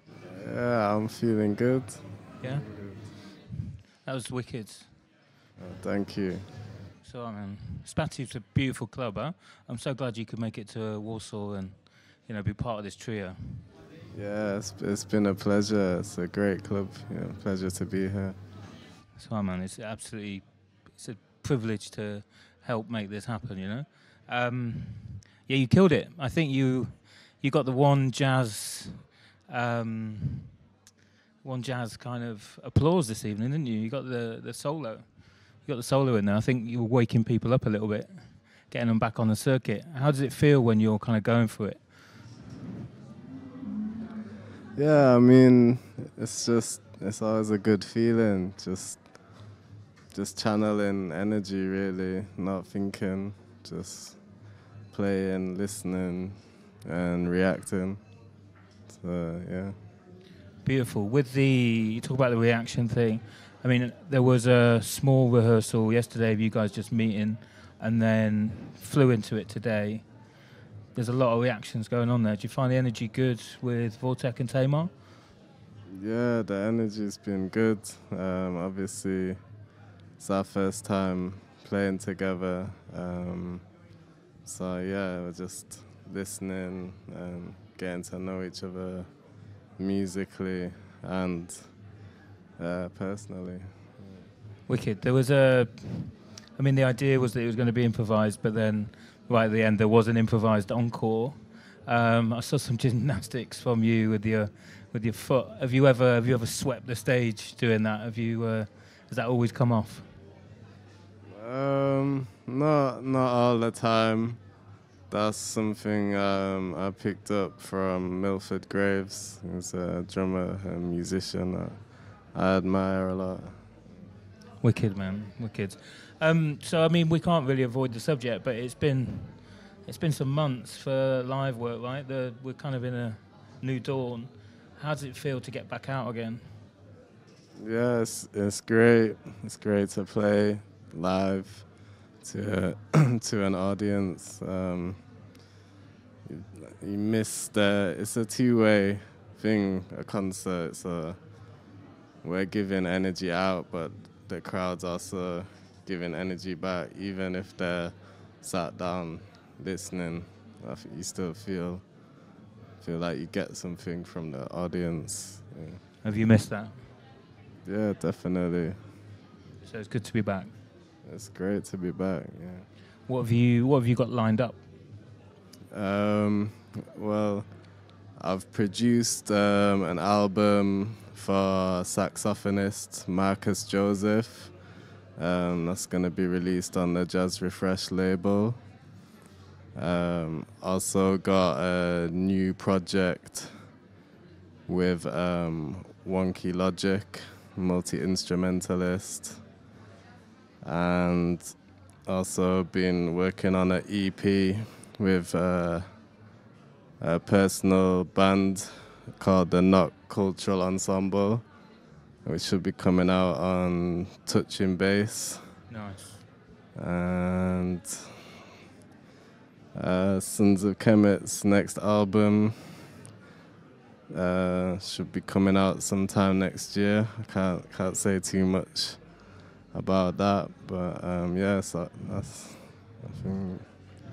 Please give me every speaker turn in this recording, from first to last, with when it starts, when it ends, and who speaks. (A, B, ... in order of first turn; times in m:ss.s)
0:00.2-0:03.0 A
0:02.4-0:02.7 B
0:04.0-0:05.0 B
0:05.6-0:06.6 A
0:07.0-0:13.7 B
0:14.1-0:18.4 A
0:19.2-0:30.5 B
0:31.4-0:41.9 B
0:44.8-0:49.4 A
0:50.1-0:58.0 A
0:58.9-0:59.8 A
1:00.6-1:10.1 B
1:10.9-1:14.9 B
1:15.9-1:19.4 A
1:20.2-1:23.8 A
1:24.4-1:32.0 A
1:32.6-1:33.8 A
1:34.7-1:50.1 B
1:51.3-1:54.4 A
1:55.1-2:03.6 A
2:04.6-2:16.6 B
2:17.6-2:25.0 A
2:26.3-2:31.2 A
2:32.2-2:41.9 A
2:42.8-2:45.8 A
2:46.0-2:46.8 B
2:47.6-2:48.8 A
2:49.6-2:50.5 B
2:51.0-2:52.7 A
2:53.1-2:54.6 B
2:55.7-2:57.5 A
2:58.1-3:04.6 A
3:05.2-3:08.6 A
3:09.8-3:13.7 A
3:14.7-3:19.5 A
3:20.6-3:26.1 A
3:27.0-3:31.4 A
3:32.2-3:35.5 A
3:35.7-3:36.2 B
3:36.8-3:38.2 A
3:39.7-3:42.9 A
3:44.1-3:49.2 A
3:49.7-3:53.7 A